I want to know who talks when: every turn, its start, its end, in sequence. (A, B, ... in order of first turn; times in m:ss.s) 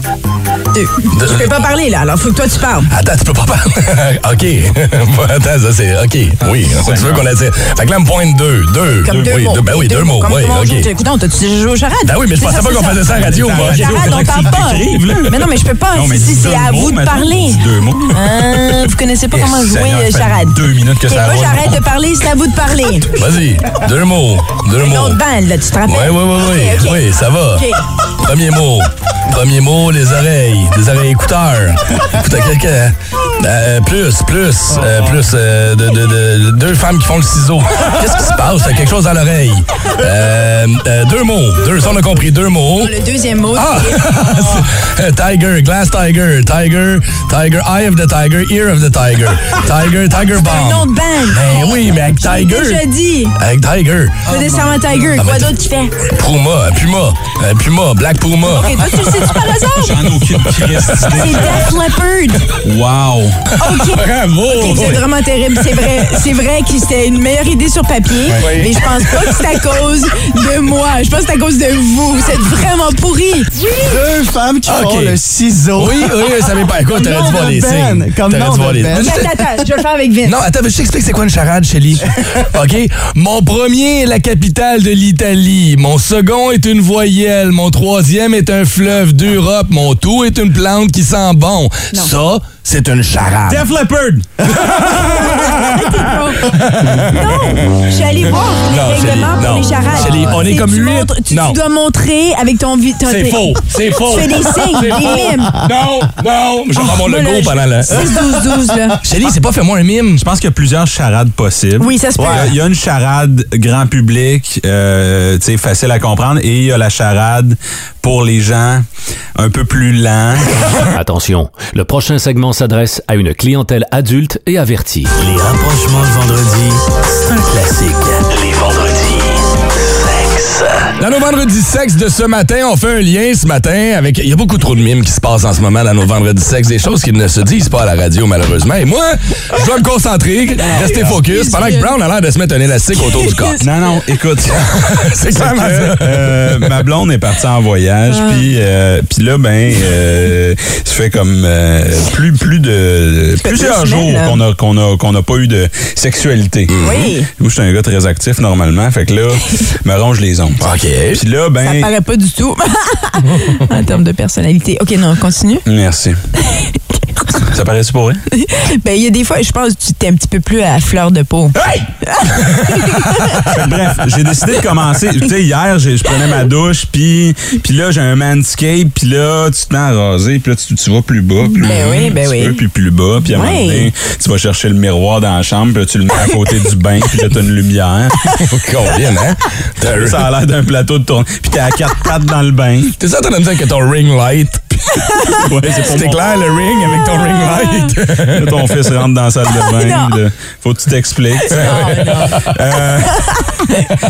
0:00.7-0:02.9 A
0:01.1-0:01.5 B
0:02.9-0:10.9 B
0:06.7-0:07.2 C
0:09.0-0:23.1 A
0:12.0-0:14.2 B
0:13.2-0:18.8 C
0:19.3-0:21.8 C
0:23.1-0:25.2 B
0:24.8-0:27.0 A
0:25.8-0:27.6 B
0:27.5-0:27.8 A
0:28.2-0:42.9 B
0:42.8-0:44.0 A
0:43.5-0:52.8 B
0:50.3-0:53.3 A
0:53.4-0:54.3 B
0:54.3-0:56.0 A
0:55.1-0:59.5 B
0:58.5-1:00.1 A
0:59.7-1:01.8 C
1:00.6-1:00.9 B
1:01.1-1:02.5 A
1:02.6-1:03.5 C
1:03.6-1:13.7 A
1:03.6-1:05.0 B
1:05.7-1:06.0 B
1:08.3-1:09.6 B
1:13.7-1:16.1 D
1:14.7-1:15.2 B
1:15.8-1:19.3 B
1:16.9-1:19.3 D
1:18.9-1:20.4 A
1:20.2-1:33.6 B
1:33.5-1:34.3 C
1:34.5-1:37.7 B
1:35.0-1:36.5 A
1:37.1-1:43.6 A
1:38.7-1:41.6 B
1:43.0-1:48.2 B
1:44.1-1:45.6 A
1:46.8-1:49.0 A
1:49.0-1:50.2 B
1:50.2-1:58.8 C
1:51.8-1:52.5 A
1:52.2-1:52.5 D
1:59.4-2:00.8 C
2:00.9-2:05.1 E
2:05.1-2:10.9 F
2:11.0-2:23.6 B
2:20.6-2:21.9 A
2:23.0-2:23.7 A
2:23.6-2:24.7 C
2:24.5-2:26.8 B
2:25.3-2:36.7 C
2:28.1-2:28.5 A
2:33.4-2:34.4 A
2:36.7-2:37.1 B
2:36.8-2:37.3 A
2:37.3-2:40.6 C
2:40.6-2:41.2 B
2:41.1-2:41.9 C
2:41.6-2:45.6 A
2:45.6-2:46.2 C
2:46.4-2:47.4 A
2:47.5-2:48.2 C
2:48.3-2:53.5 A
2:52.6-2:53.3 B
2:53.5-3:08.2 C
3:01.5-3:02.6 A
3:03.3-3:03.9 A
3:08.3-3:10.3 B
3:09.9-3:12.9 C
3:13.0-3:14.7 B
3:15.4-3:16.2 C
3:15.8-3:18.8 B
3:17.1-3:17.9 A
3:18.3-3:23.2 C
3:19.7-3:20.2 A
3:21.4-3:22.4 A
3:23.3-3:23.9 A